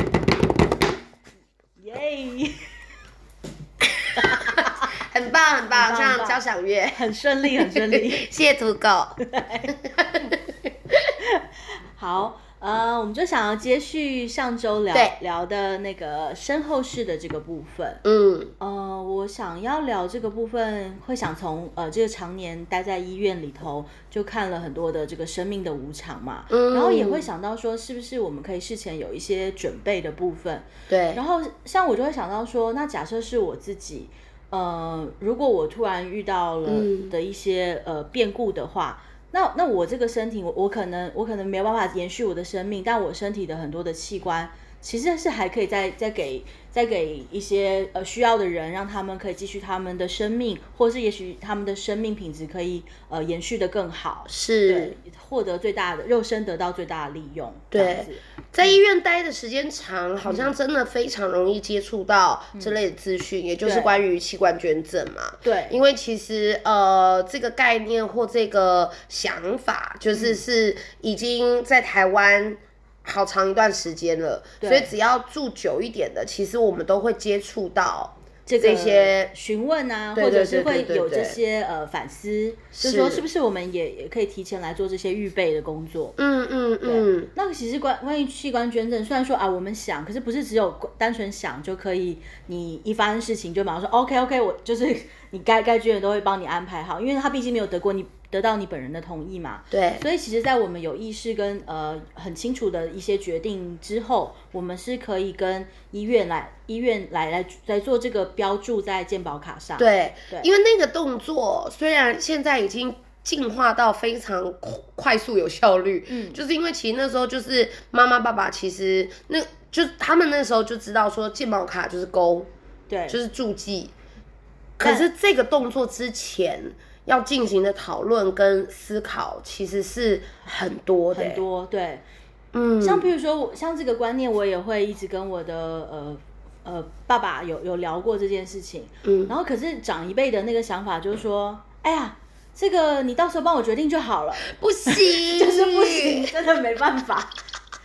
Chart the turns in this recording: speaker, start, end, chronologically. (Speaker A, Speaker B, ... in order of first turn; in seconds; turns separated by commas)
Speaker A: 1.8-2.6, Speaker A: 4.2-4.9, Speaker B: 5.0-9.2, Speaker A: 5.7-6.4, Speaker A: 6.9-8.2, Speaker A: 9.2-9.7, Speaker A: 11.9-18.0, Speaker B: 18.0-18.5, Speaker A: 18.6-58.8, Speaker B: 26.5-27.3, Speaker B: 30.9-31.2, Speaker B: 36.6-37.1, Speaker B: 54.3-55.0, Speaker B: 57.7-79.3, Speaker A: 60.2-60.5, Speaker A: 63.6-63.9, Speaker A: 65.4-65.8, Speaker A: 70.1-70.4, Speaker A: 74.6-74.9, Speaker A: 78.5-86.2, Speaker B: 80.1-81.4, Speaker B: 82.7-83.2, Speaker B: 86.2-87.3, Speaker A: 86.8-110.5, Speaker B: 99.7-100.0, Speaker B: 109.8-122.5, Speaker A: 116.1-116.4, Speaker A: 122.9-123.2, Speaker B: 123.1-123.9, Speaker B: 124.8-131.4, Speaker A: 124.8-125.1, Speaker A: 131.1-132.0, Speaker B: 132.5-133.1, Speaker A: 132.8-147.3, Speaker B: 139.0-139.3, Speaker B: 144.5-146.3